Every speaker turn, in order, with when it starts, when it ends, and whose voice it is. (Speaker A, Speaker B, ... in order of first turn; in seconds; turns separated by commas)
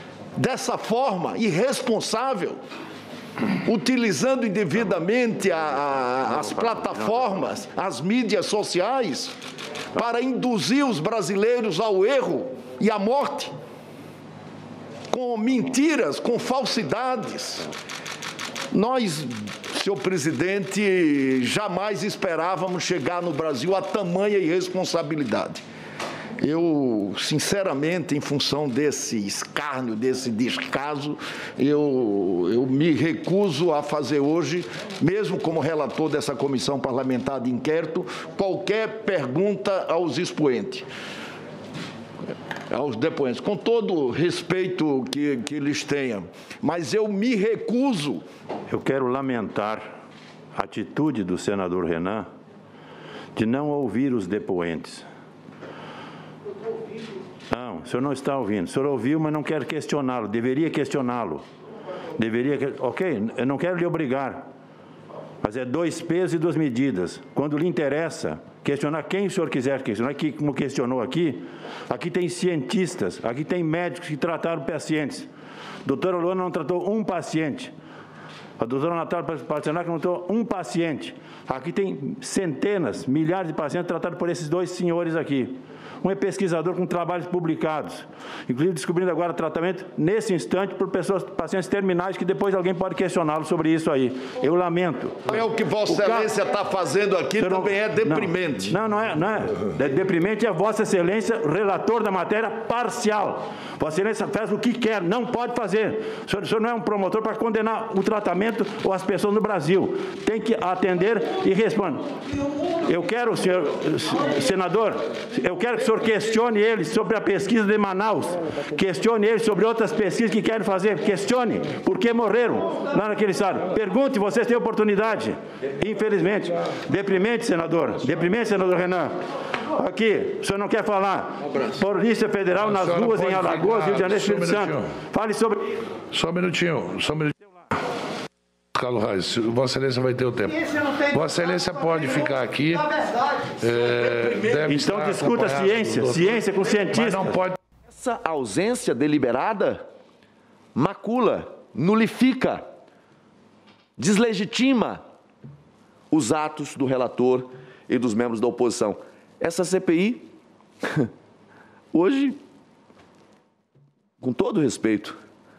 Speaker A: 0.3-2.6, Speaker A: 3.6-9.3, Speaker B: 6.7-7.0, Speaker A: 9.9-13.5, Speaker A: 15.1-17.7, Speaker A: 18.7-25.6, Speaker A: 26.4-40.9, Speaker A: 42.7-48.2, Speaker B: 48.7-49.9, Speaker B: 50.5-52.2, Speaker B: 53.4-55.0, Speaker B: 57.5-61.4, Speaker B: 62.2-64.4, Speaker B: 65.4-75.3, Speaker B: 75.8-77.7, Speaker B: 78.6-96.3, Speaker A: 95.3-98.8, Speaker B: 97.4-129.1, Speaker B: 129.7-135.8, Speaker C: 132.6-134.9, Speaker C: 136.1-137.3, Speaker C: 138.7-147.6, Speaker B: 144.6-147.4, Speaker D: 147.9-149.8, Speaker D: 150.7-152.6, Speaker D: 154.0-155.0, Speaker D: 156.1-160.3, Speaker D: 161.9-162.4, Speaker D: 164.2-165.2